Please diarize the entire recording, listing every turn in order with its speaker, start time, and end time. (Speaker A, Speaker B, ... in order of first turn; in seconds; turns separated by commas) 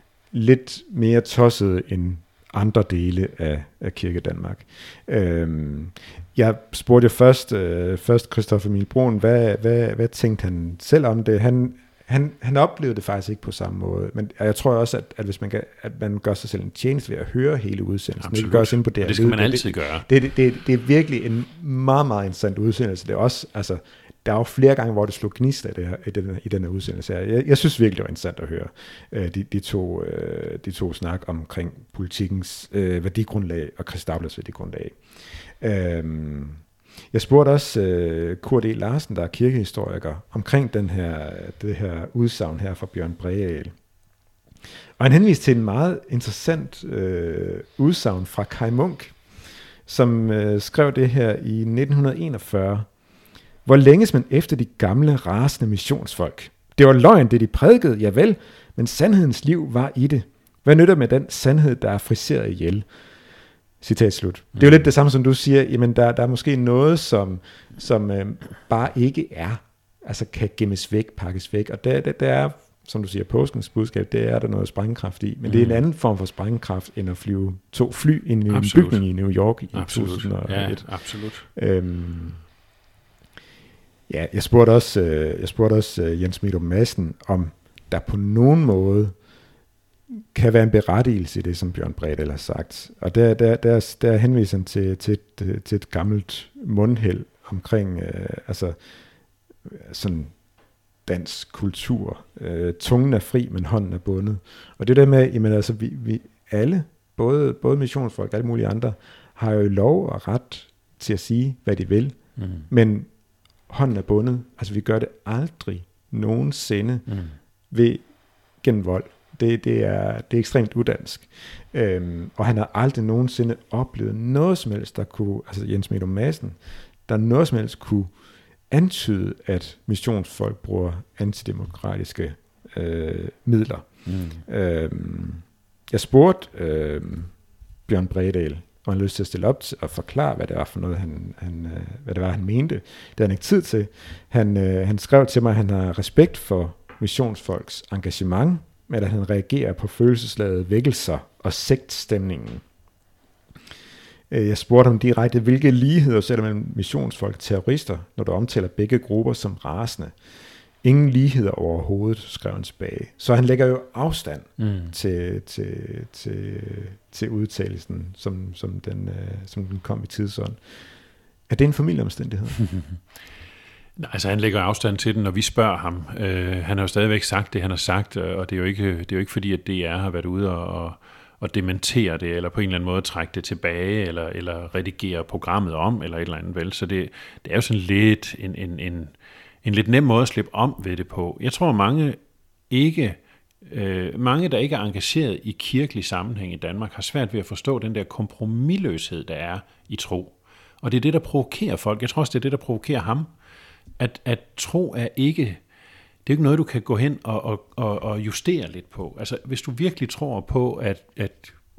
Speaker A: 0.3-35.0, Speaker B: 18.2-20.1, Speaker A: 35.6-43.7, Speaker A: 45.0-49.1, Speaker A: 49.9-52.9, Speaker A: 53.7-62.9, Speaker A: 63.8-80.9, Speaker B: 75.5-75.8, Speaker B: 78.5-79.0, Speaker B: 79.7-81.5, Speaker A: 81.4-82.4, Speaker A: 84.1-89.2, Speaker A: 90.3-98.8, Speaker A: 99.7-100.3, Speaker A: 101.0-112.2, Speaker B: 112.4-112.7, Speaker A: 112.7-113.1, Speaker A: 113.7-117.1, Speaker A: 117.7-118.0, Speaker A: 118.6-128.1, Speaker A: 128.7-137.3, Speaker A: 137.9-152.6, Speaker A: 154.3-160.2, Speaker A: 160.8-170.6, Speaker B: 164.6-164.9, Speaker A: 171.5-172.6, Speaker B: 174.0-192.2, Speaker B: 192.7-203.3, Speaker B: 204.0-205.6, Speaker B: 206.2-211.6